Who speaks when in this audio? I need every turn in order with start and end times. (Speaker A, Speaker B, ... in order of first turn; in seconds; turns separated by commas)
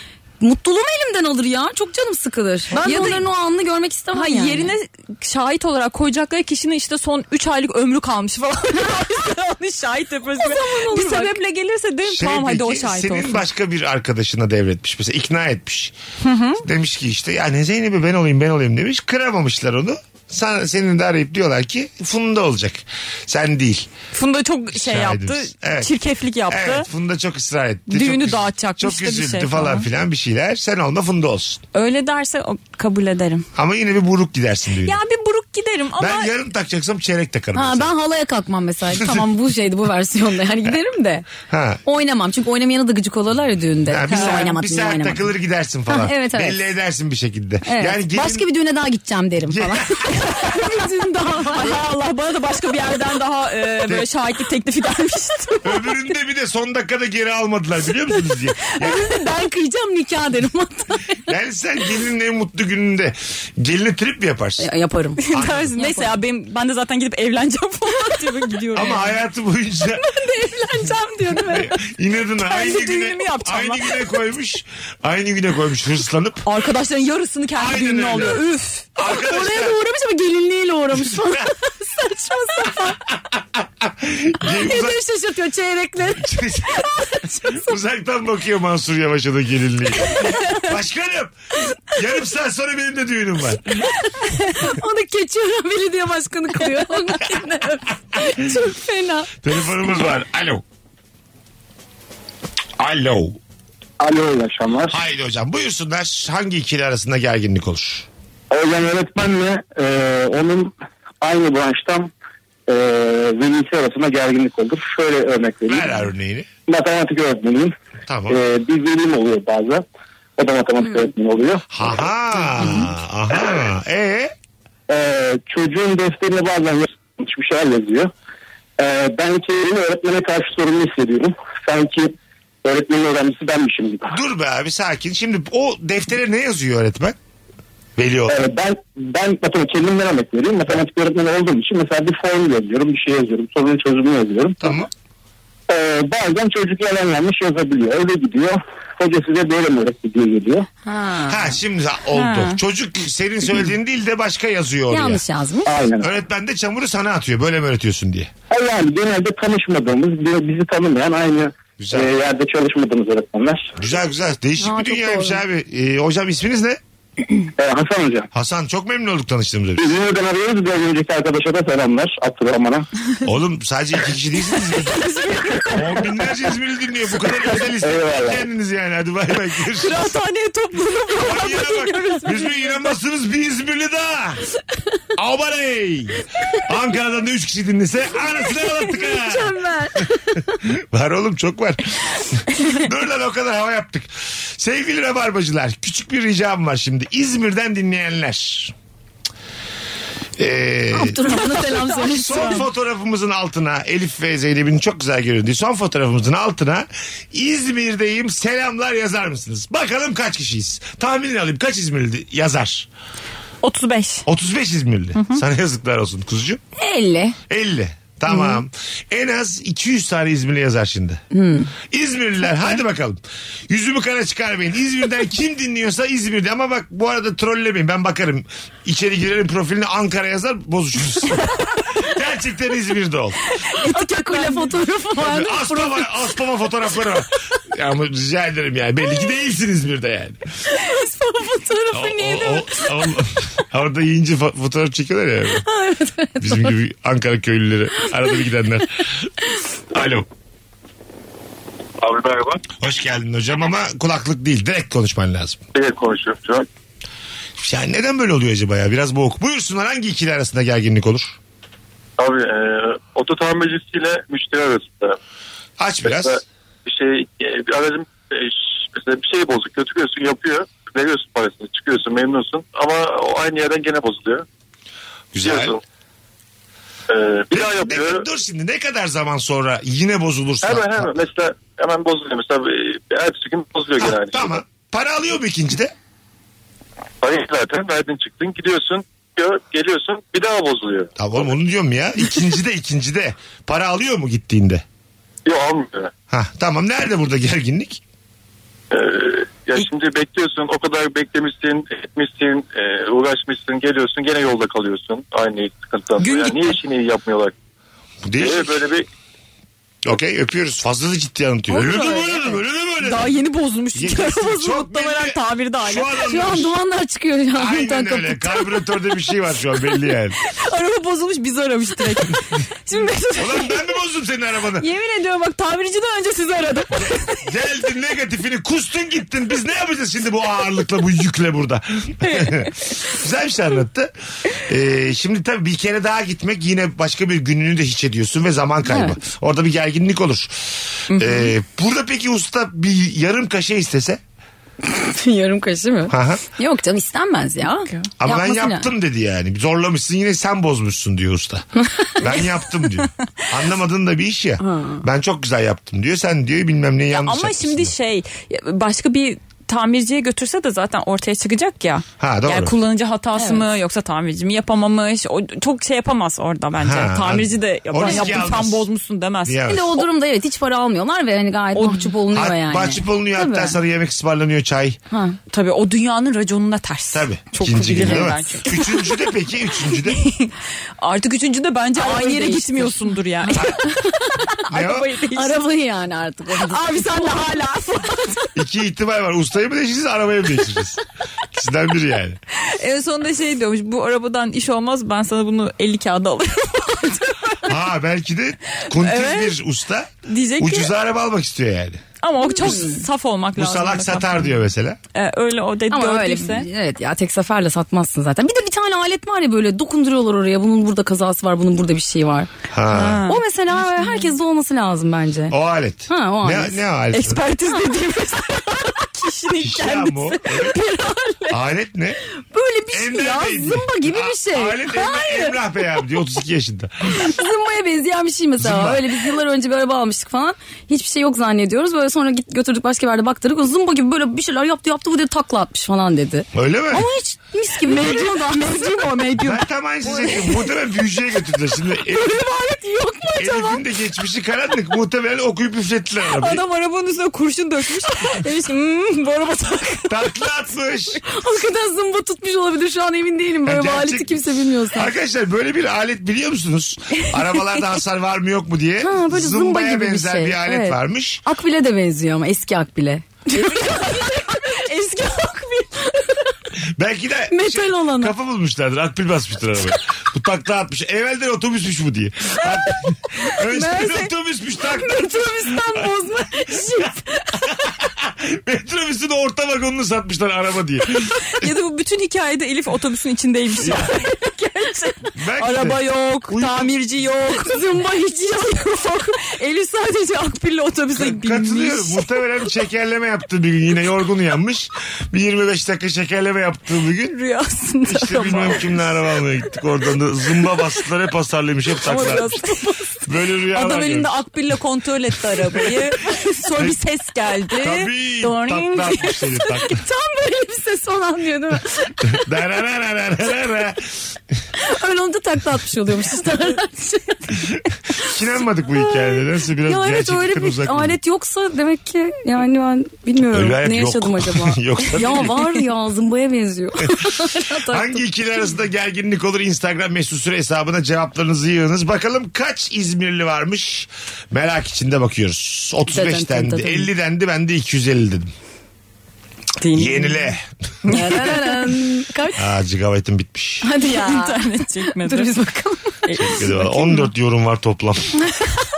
Speaker A: 0.4-4.7, Speaker B: 2.7-3.3, Speaker B: 4.1-13.4, Speaker A: 10.4-11.4, Speaker C: 12.1-16.0, Speaker B: 16.2-16.6, Speaker C: 16.6-23.9, Speaker B: 24.1-26.9, Speaker C: 24.7-25.9, Speaker C: 26.5-31.6, Speaker B: 27.9-29.9, Speaker B: 31.7-33.5, Speaker C: 33.6-35.0, Speaker B: 34.8-36.3, Speaker C: 36.0-37.9, Speaker A: 37.5-41.3, Speaker C: 38.9-39.3, Speaker C: 41.5-41.8, Speaker A: 41.9-45.2, Speaker C: 43.9-48.5, Speaker B: 44.1-44.5, Speaker A: 45.9-46.6, Speaker A: 47.7-51.8, Speaker C: 49.5-50.0, Speaker B: 51.5-56.0, Speaker C: 55.6-59.0, Speaker A: 58.8-61.2, Speaker C: 61.3-64.7, Speaker A: 64.6-66.1, Speaker B: 65.2-69.1, Speaker C: 65.3-65.7, Speaker C: 68.8-70.0, Speaker A: 70.0-71.7, Speaker C: 71.4-76.5, Speaker B: 72.4-74.1, Speaker B: 76.5-78.9, Speaker C: 77.6-78.4, Speaker C: 79.0-79.8, Speaker A: 79.0-83.0, Speaker C: 81.0-81.5, Speaker C: 83.2-85.0, Speaker A: 84.5-87.7, Speaker C: 86.2-86.9, Speaker C: 87.5-91.4, Speaker C: 91.9-93.9, Speaker A: 94.5-99.3, Speaker C: 99.4-100.6, Speaker C: 102.8-103.4, Speaker D: 104.0-105.0, Speaker C: 104.9-108.1, Speaker D: 108.5-112.1, Speaker D: 112.7-115.9, Speaker C: 115.7-116.5, Speaker D: 116.7-117.7, Speaker C: 118.1-118.4, Speaker D: 118.3-119.8, Speaker D: 120.4-121.9, Speaker C: 121.7-124.3, Speaker D: 124.9-128.1, Speaker D: 128.8-134.1, Speaker C: 134.1-137.2, Speaker C: 138.0-138.4, Speaker D: 138.3-144.7, Speaker C: 144.6-144.9, Speaker D: 145.7-150.7, Speaker A: 150.9-151.6, Speaker C: 151.3-155.2, Speaker B: 152.1-152.6, Speaker A: 154.9-155.7, Speaker D: 155.7-156.1, Speaker C: 156.0-158.3, Speaker D: 158.5-163.7, Speaker C: 161.8-162.1, Speaker C: 163.8-166.8, Speaker A: 164.6-165.4, Speaker D: 167.6-168.3, Speaker C: 168.3-169.9, Speaker D: 169.8-172.9, Speaker C: 173.2-175.1, Speaker B: 174.8-176.0, Speaker C: 175.7-180.1, Speaker D: 177.8-178.4, Speaker B: 179.8-182.7, Speaker C: 181.2-184.4, Speaker C: 185.2-198.7, Speaker A: 189.0-190.4, Speaker C: 200.4-201.2, Speaker A: 200.9-202.6, Speaker B: 201.6-202.5, Speaker C: 201.9-212.9, Speaker B: 213.6-214.3, Speaker C: 214.3-216.6, Speaker B: 215.2-215.4, Speaker A: 216.8-217.4, Speaker C: 217.5-221.2, Speaker A: 221.3-221.7, Speaker C: 221.9-233.4, Speaker B: 233.7-234.8, Speaker A: 233.8-236.1, Speaker C: 235.2-240.4, Speaker A: 240.8-242.9, Speaker C: 241.9-245.7, Speaker A: 245.7-246.8, Speaker C: 246.4-249.3, Speaker C: 249.9-250.3, Speaker E: 252.0-252.6, Speaker C: 252.8-255.6, Speaker E: 255.8-256.7, Speaker C: 257.6-261.4, Speaker E: 262.2-265.2, Speaker C: 265.8-266.4, Speaker E: 266.1-274.4, Speaker C: 275.3-275.8, Speaker E: 275.4-275.8, Speaker E: 277.1-278.2, Speaker C: 277.5-281.1, Speaker E: 280.6-284.6, Speaker C: 284.0-285.9, Speaker E: 287.2-291.1, Speaker C: 291.2-294.8, Speaker E: 295.5-296.1, Speaker C: 296.3-298.0, Speaker E: 298.9-307.5, Speaker B: 306.2-306.7, Speaker C: 308.2-308.8, Speaker E: 308.4-309.1, Speaker C: 310.1-313.4, Speaker A: 311.7-312.6, Speaker B: 313.0-316.1, Speaker C: 313.9-316.7, Speaker A: 316.3-318.7, Speaker C: 317.6-320.4, Speaker B: 320.4-323.9, Speaker C: 323.4-324.9, Speaker B: 324.8-327.5, Speaker C: 327.0-344.2, Speaker B: 332.2-332.7, Speaker A: 338.9-339.2, Speaker B: 341.1-341.5, Speaker A: 344.9-348.9, Speaker C: 346.1-346.4, Speaker C: 348.2-351.7, Speaker C: 352.2-357.9, Speaker A: 354.6-355.0, Speaker B: 357.1-369.6, Speaker C: 362.2-362.7, Speaker A: 363.4-363.6, Speaker C: 366.8-368.9, Speaker A: 368.0-368.4, Speaker C: 369.5-370.0, Speaker A: 369.7-373.8, Speaker B: 371.8-372.1, Speaker C: 372.3-375.0, Speaker A: 375.1-375.4, Speaker B: 375.5-379.2, Speaker C: 377.1-380.2, Speaker B: 380.0-383.9, Speaker A: 382.0-384.5, Speaker B: 384.6-385.6, Speaker C: 384.7-385.1, Speaker A: 385.4-387.3, Speaker B: 386.6-388.5, Speaker C: 388.6-391.0, Speaker C: 391.5-392.4, Speaker B: 392.6-397.6, Speaker C: 397.6-402.0, Speaker B: 398.8-399.6, Speaker B: 400.3-400.9, Speaker B: 402.2-404.5, Speaker A: 402.5-403.0, Speaker C: 403.6-405.0, Speaker B: 405.1-406.7, Speaker A: 405.9-412.5, Speaker C: 412.7-413.2, Speaker B: 412.9-414.3, Speaker A: 413.3-415.6, Speaker C: 415.5-417.4, Speaker A: 416.1-416.8, Speaker B: 417.1-421.6, Speaker C: 419.6-420.8, Speaker C: 421.5-422.2, Speaker A: 422.5-425.6, Speaker C: 422.9-427.2, Speaker A: 427.1-439.4, Speaker C: 428.6-429.1, Speaker C: 436.5-437.1, Speaker B: 437.8-440.6, Speaker C: 439.4-442.4, Speaker A: 442.2-443.8, Speaker C: 443.4-446.6, Speaker B: 446.4-450.1, Speaker A: 448.4-449.6, Speaker C: 450.1-451.2, Speaker A: 451.2-455.1, Speaker C: 453.6-454.4, Speaker C: 454.9-461.4, Speaker A: 459.0-464.7, Speaker B: 463.5-466.1, Speaker C: 467.0-476.1, Speaker A: 467.5-468.4, Speaker A: 473.8-474.3, Speaker A: 474.8-477.5, Speaker C: 476.7-477.1, Speaker C: 477.7-481.6, Speaker B: 481.4-492.3, Speaker C: 483.8-484.1, Speaker C: 485.4-486.9, Speaker A: 487.6-488.1, Speaker C: 491.2-497.4, Speaker B: 497.2-499.0, Speaker C: 498.1-502.5, Speaker B: 502.1-502.9, Speaker A: 502.1-503.0, Speaker C: 503.3-504.4, Speaker B: 503.7-509.8, Speaker C: 507.8-510.0, Speaker A: 509.9-512.1, Speaker C: 512.3-514.1, Speaker A: 514.8-517.6, Speaker C: 518.2-521.2, Speaker A: 518.9-528.3, Speaker C: 523.5-525.6, Speaker C: 527.5-538.5, Speaker A: 536.1-537.1, Speaker B: 539.8-540.2, Speaker C: 539.9-541.5, Speaker A: 541.1-542.6, Speaker B: 541.1-541.9, Speaker C: 542.6-543.9, Speaker A: 543.8-546.2, Speaker B: 544.0-545.6, Speaker B: 546.2-547.3, Speaker C: 546.3-548.5